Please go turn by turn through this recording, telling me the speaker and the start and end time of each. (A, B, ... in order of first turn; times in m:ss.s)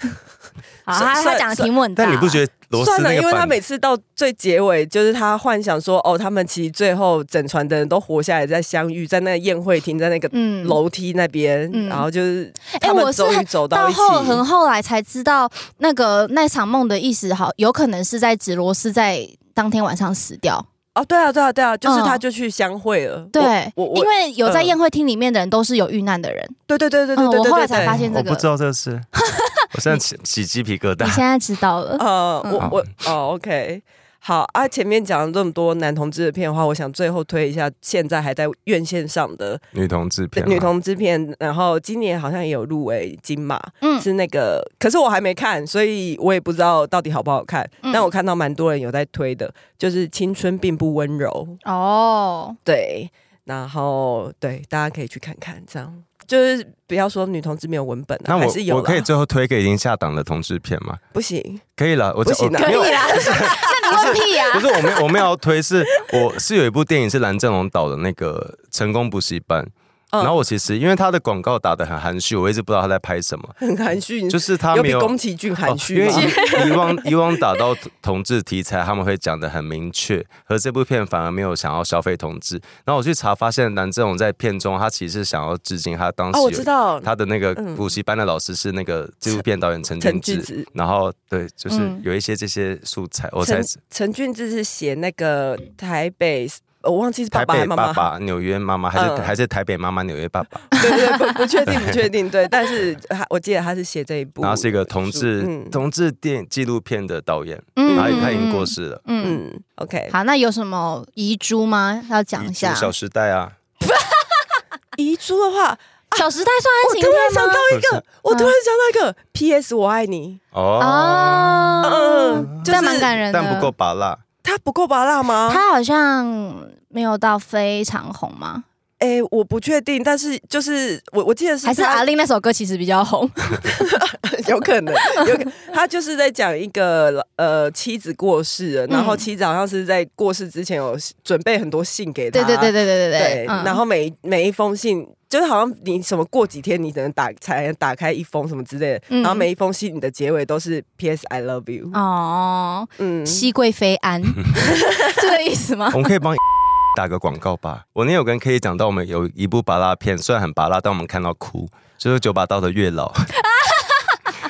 0:00.8-0:02.4 A
0:00.9-0:01.7 B
0:02.0-0:03.6 C
0:02.8-0:14.4 B
0:10.3-0:10.8 A
0:11.7-0:12.0 A
0:12.7-0:20.7 A
0:20.9-0:24.7 B
0:21.8-0:22.2 A
0:23.3-0:26.6 A
0:26.7-0:28.1 B
0:27.2-0:28.4 A
0:27.8-0:29.1 C
0:29.2-0:29.6 A
0:29.7-0:31.2 C
0:31.0-0:32.7 A
0:32.0-0:39.6 B
0:39.7-0:40.7 C
0:40.3-0:51.6 B
0:43.8-0:44.1 A
0:47.8-0:48.1 A
0:51.6-0:52.6 A
0:52.6-0:59.1 B
0:58.2-1:01.0 C
1:01.1-1:01.6 B
1:01.8-1:13.6 C
1:02.2-1:05.1 B
1:02.5-1:04.8 A
1:10.1-1:10.4 B
1:13.6-1:16.7 B
1:14.3-1:33.7 C
1:16.1-1:17.1 A
1:26.3-1:27.8 B
1:30.0-1:30.7 B
1:31.7-1:32.0 A
1:33.4-1:38.1 B
1:37.3-1:40.8 C
1:38.9-1:39.3 B
1:40.8-1:45.8 B
1:41.7-1:42.0 C
1:44.4-1:49.0 C
1:47.8-1:49.4 A
1:47.9-1:48.4 B
1:49.2-1:50.1 B
1:50.1-1:52.9 A
1:52.4-1:53.5 C
1:53.9-1:54.6 A
1:55.0-1:56.3 B
1:56.2-1:57.6 A
1:56.8-2:00.4 B
1:57.7-1:58.0 C
2:00.5-2:01.7 C
2:00.8-2:03.7 A
2:01.8-2:03.1 B
2:02.4-2:04.2 C
2:04.4-2:05.6 B
2:05.5-2:08.6 A
2:09.0-2:12.0 B
2:11.6-2:13.7 A
2:13.7-2:32.0 B
2:18.9-2:19.2 A
2:22.3-2:23.8 A
2:29.1-2:29.5 A
2:31.9-2:36.1 A
2:33.0-2:33.5 B
2:35.9-2:43.3 C
2:43.5-2:44.1 A